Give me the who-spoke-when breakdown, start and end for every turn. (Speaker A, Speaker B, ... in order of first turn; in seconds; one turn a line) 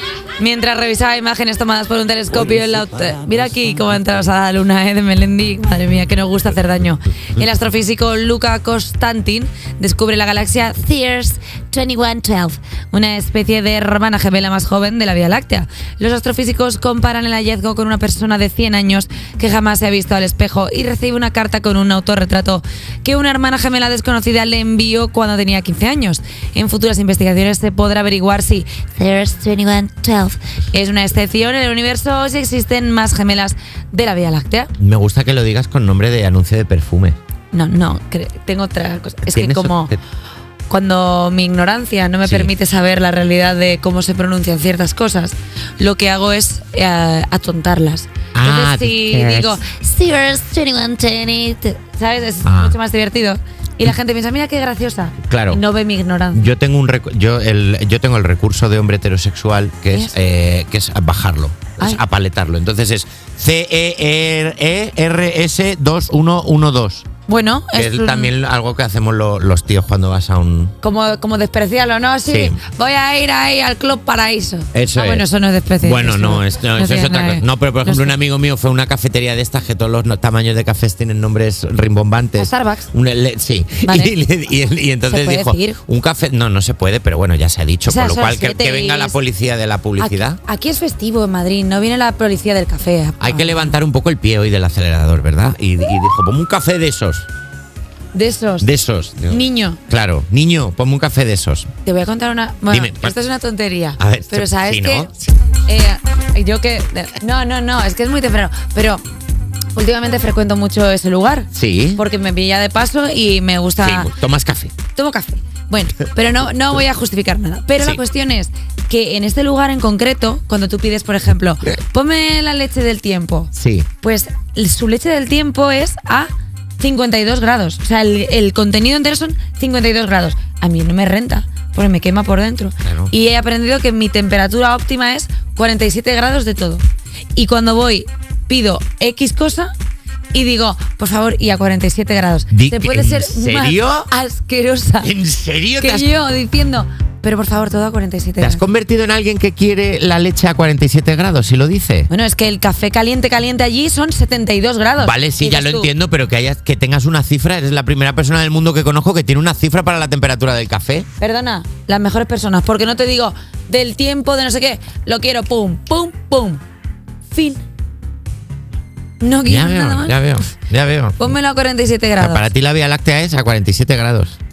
Speaker A: 0.4-34.7
Speaker B: 34.8-37.2
Speaker A: 37.5-39.9
Speaker B: 39.3-40.0
Speaker A: 40.7-56.5
Speaker B: 42.2-42.5
Speaker B: 48.3-49.6
Speaker B: 52.4-52.7
Speaker B: 55.2-55.6
Speaker B: 56.3-67.0
Speaker A: 67.3-68.3
Speaker B: 67.7-70.7
Speaker A: 70.8-78.1
Speaker B: 72.3-72.6
Speaker B: 74.7-75.2
Speaker B: 75.8-90.4
Speaker A: 82.4-82.9
Speaker A: 83.8-84.1
Speaker A: 85.1-85.8
Speaker A: 87.8-89.2
Speaker A: 90.0-93.8
Speaker B: 93.2-97.3
Speaker A: 98.1-98.7
Speaker B: 98.6-101.7
Speaker A: 99.2-99.8
Speaker A: 101.8-109.0
Speaker B: 102.7-103.1
Speaker B: 104.0-105.1
Speaker A: 109.8-114.1
Speaker B: 111.5-112.0
Speaker B: 113.8-114.8
Speaker A: 114.9-126.3
Speaker B: 123.5-123.9
Speaker A: 126.8-136.8
Speaker B: 132.8-133.1
Speaker A: 137.3-139.7
Speaker A: 140.3-145.1
Speaker B: 142.5-144.1
Speaker B: 145.0-146.1
Speaker A: 145.8-148.6
Speaker B: 148.4-152.1
Speaker A: 152.1-155.9
Speaker B: 155.0-161.1
Speaker A: 161.2-166.6
Speaker A: 167.3-167.6
Speaker A: 169.2-170.2
Speaker B: 169.4-171.3
Speaker A: 171.2-172.5
Speaker B: 172.2-174.4